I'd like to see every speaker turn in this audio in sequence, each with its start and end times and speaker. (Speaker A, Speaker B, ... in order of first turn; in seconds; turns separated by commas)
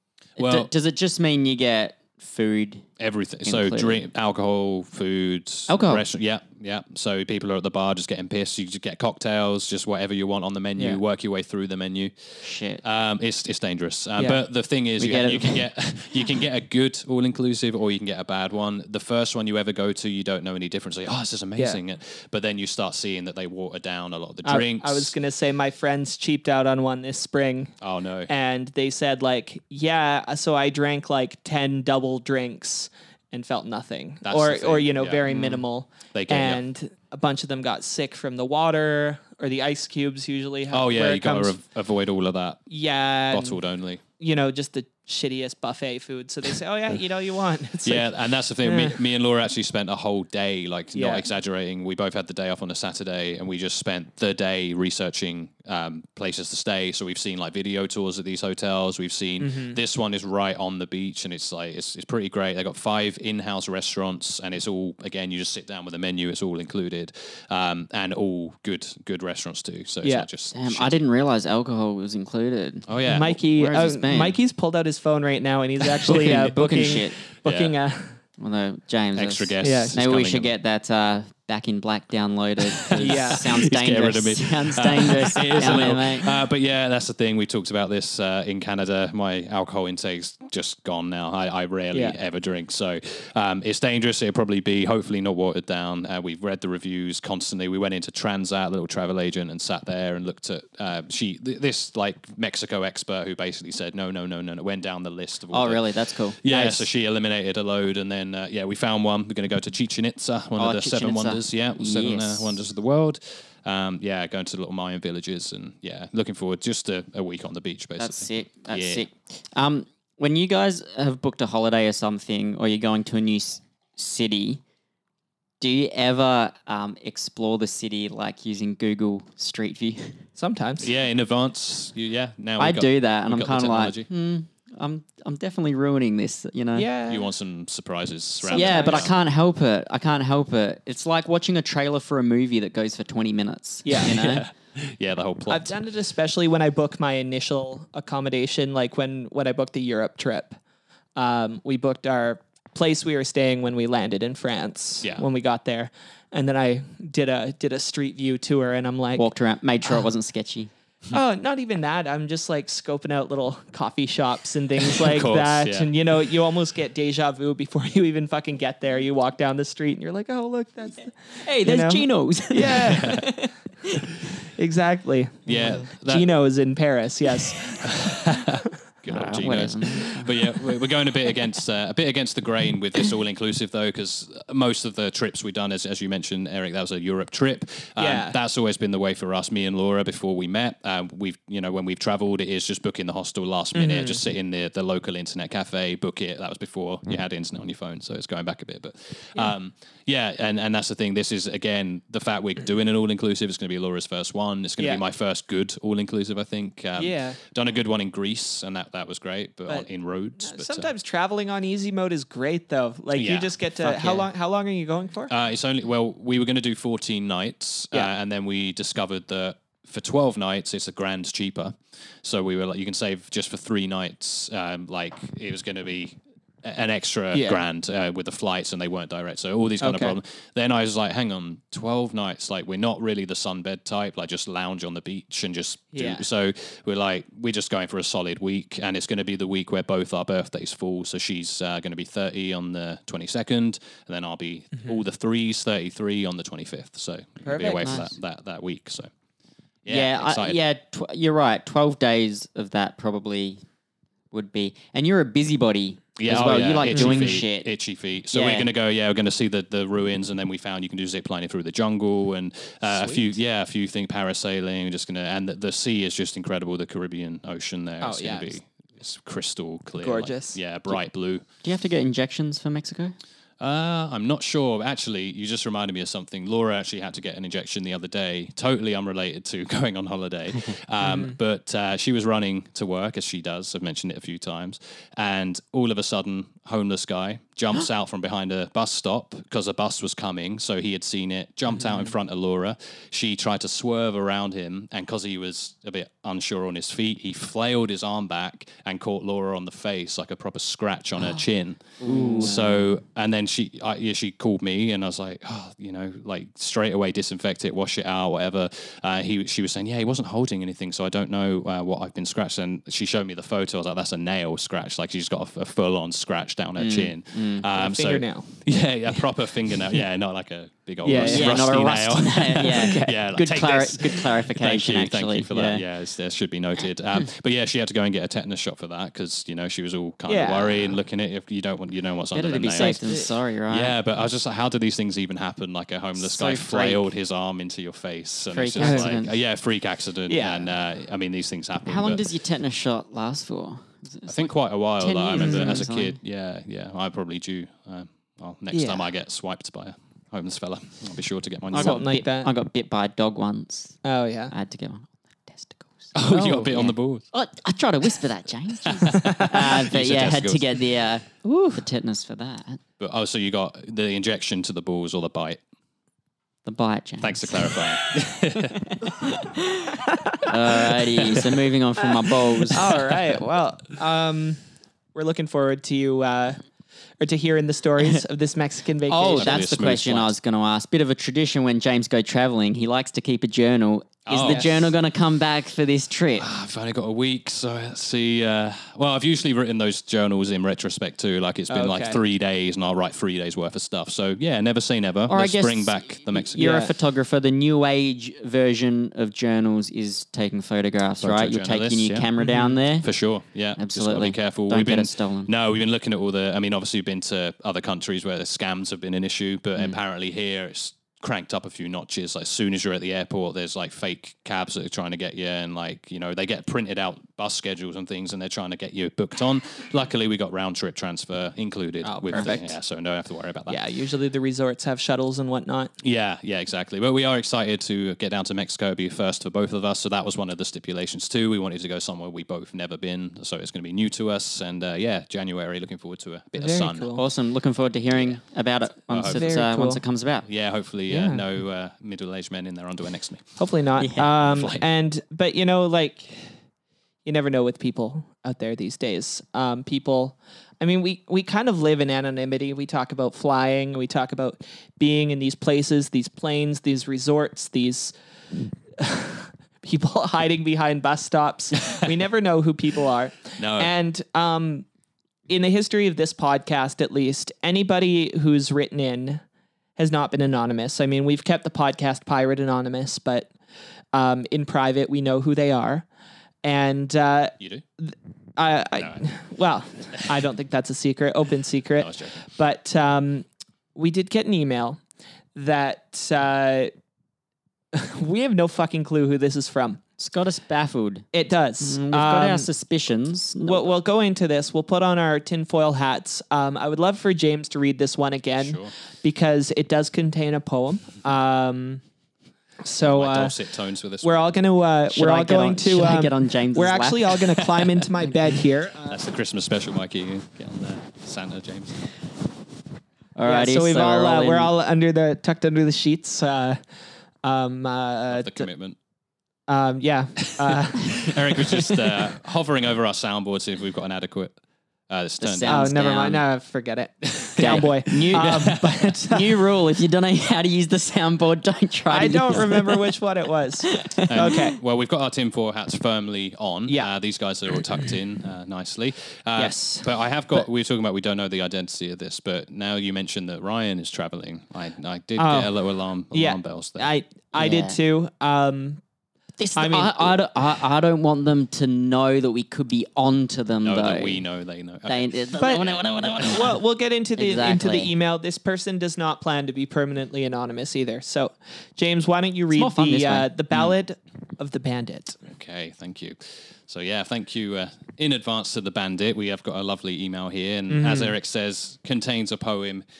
Speaker A: 0.4-0.7, Speaker B: 0.4-2.9, Speaker A: 3.0-25.1, Speaker B: 3.5-4.0, Speaker B: 5.7-6.0, Speaker B: 12.4-12.8, Speaker B: 15.0-15.7, Speaker C: 24.4-27.7, Speaker A: 27.8-28.3, Speaker C: 28.3-41.6, Speaker A: 34.2-35.2, Speaker B: 35.3-35.6, Speaker A: 36.1-36.6, Speaker A: 40.7-42.7, Speaker C: 42.7-43.6, Speaker A: 43.3-44.0, Speaker C: 44.2-48.1, Speaker A: 47.8-71.0, Speaker C: 48.6-49.0, Speaker C: 50.9-51.2, Speaker C: 59.4-59.8, Speaker C: 70.0-70.3, Speaker B: 70.5-74.4, Speaker A: 72.9-73.4, Speaker C: 73.1-78.2, Speaker A: 76.0-76.5, Speaker B: 76.1-77.2, Speaker A: 77.4-77.7, Speaker B: 78.4-86.3, Speaker A: 79.1-80.5, Speaker C: 79.6-80.0, Speaker A: 82.8-119.1, Speaker C: 83.0-83.5, Speaker B: 105.5-106.9, Speaker B: 110.6-112.6, Speaker B: 118.0-124.6, Speaker B: 125.6-130.2, Speaker C: 130.4-130.9, Speaker A: 130.8-134.1, Speaker B: 132.6-136.9, Speaker C: 136.8-137.3, Speaker A: 137.1-139.1, Speaker C: 138.5-139.1, Speaker B: 138.5-144.5, Speaker C: 143.8-144.1, Speaker A: 144.0-145.7, Speaker C: 145.5-150.6, Speaker C: 151.2-159.3, Speaker B: 159.2-160.7, Speaker C: 161.1-173.3, Speaker A: 164.8-165.9, Speaker B: 171.4-173.5, Speaker A: 172.6-173.3, Speaker C: 174.4-177.9, Speaker A: 175.5-176.3, Speaker B: 175.5-175.8, Speaker A: 177.6-210.9, Speaker B: 179.1-180.7, Speaker C: 188.0-188.4, Speaker C: 193.8-194.2, Speaker C: 204.8-205.0, Speaker C: 207.0-207.4, Speaker C: 210.4-215.3, Speaker A: 213.1-214.2, Speaker B: 214.0-214.2, Speaker A: 215.3-249.1, Speaker C: 227.3-227.6, Speaker C: 229.8-230.2, Speaker C: 235.9-236.2, Speaker C: 247.4-248.0, Speaker B: 247.8-248.1, Speaker A: 249.8-250.6, Speaker B: 249.9-253.6, Speaker B: 254.3-257.7, Speaker A: 256.2-271.5, Speaker C: 256.9-257.4, Speaker B: 258.3-258.7, Speaker C: 268.0-268.6, Speaker C: 270.0-270.6, Speaker B: 271.6-273.2, Speaker A: 273.6-342.3, Speaker C: 281.0-281.4, Speaker C: 302.0-302.6, Speaker B: 302.0-302.7, Speaker B: 316.8-317.7, Speaker C: 317.7-318.5, Speaker C: 321.1-321.7, Speaker B: 321.2-325.8, Speaker C: 322.6-323.2, Speaker C: 330.3-331.0, Speaker B: 332.3-333.9, Speaker C: 332.8-333.2, Speaker B: 336.2-337.1, Speaker B: 338.5-339.3, Speaker C: 338.8-339.1, Speaker C: 340.3-340.7, Speaker B: 341.9-346.2, Speaker A: 344.3-352.2, Speaker C: 345.4-345.8, Speaker C: 348.7-349.1, Speaker C: 351.7-352.5, Speaker B: 351.7-362.8, Speaker C: 354.0-354.5, Speaker A: 356.1-357.3, Speaker A: 358.8-360.8, Speaker C: 359.1-359.5, Speaker C: 361.4-361.8, Speaker A: 363.0-365.6, Speaker B: 366.6-367.9, Speaker A: 367.2-368.9, Speaker B: 368.9-372.9, Speaker C: 370.1-370.8, Speaker A: 371.3-371.6, Speaker C: 372.7-374.6, Speaker C: 375.1-376.6, Speaker C: 377.2-379.6, Speaker B: 379.1-386.5, Speaker A: 379.3-380.3, Speaker A: 384.3-385.0, Speaker A: 386.4-396.9, Speaker C: 391.7-392.2, Speaker B: 395.3-403.1, Speaker C: 396.6-396.9, Speaker A: 401.2-402.3, Speaker C: 402.4-402.8, Speaker A: 403.0-423.8, Speaker B: 403.8-405.5, Speaker C: 422.0-422.8, Speaker C: 423.7-425.9, Speaker A: 426.0-437.2, Speaker C: 436.6-437.2, Speaker B: 437.1-440.5, Speaker A: 438.1-438.4, Speaker A: 439.1-439.4, Speaker C: 439.3-440.0, Speaker A: 440.4-443.6, Speaker C: 441.1-441.4, Speaker C: 443.6-446.4, Speaker B: 444.0-444.3, Speaker A: 444.4-444.9, Speaker C: 447.2-458.1, Speaker C: 459.0-464.9, Speaker A: 463.6-463.9, Speaker C: 465.5-469.4, Speaker C: 470.0-473.5, Speaker C: 474.1-476.1, Speaker C: 476.6-485.0, Speaker A: 479.0-479.2, Speaker A: 482.0-482.4, Speaker C: 485.6-486.9, Speaker C: 487.9-490.0, Speaker B: 490.2-491.3, Speaker C: 491.3-492.7, Speaker B: 491.8-493.9, Speaker C: 493.6-502.0, Speaker A: 498.6-498.9, Speaker C: 502.8-503.5, Speaker A: 503.0-504.6, Speaker C: 504.2-509.2, Speaker B: 505.1-507.7, Speaker A: 509.1-512.1, Speaker B: 513.4-514.7, Speaker C: 513.5-516.8, Speaker C: 517.4-518.7, Speaker A: 518.3-519.0, Speaker C: 519.7-522.3, Speaker A: 520.6-524.6, Speaker A: 525.1-525.9, Speaker B: 525.4-526.5, Speaker C: 525.6-529.6, Speaker A: 527.2-529.1, Speaker B: 527.6-533.1, Speaker C: 532.1-534.8, Speaker B: 533.9-534.3, Speaker A: 534.3-547.1, Speaker C: 539.6-540.1, Speaker C: 545.4-545.7, Speaker C: 546.3-549.0, Speaker B: 547.5-548.0, Speaker B: 549.6-554.5, Speaker C: 549.8-550.4, Speaker A: 553.8-555.4, Speaker B: 555.1-556.8, Speaker C: 555.6-565.4, Speaker B: 557.4-558.1, Speaker B: 562.7-563.5, Speaker A: 565.5-573.0, Speaker C: 570.9-571.3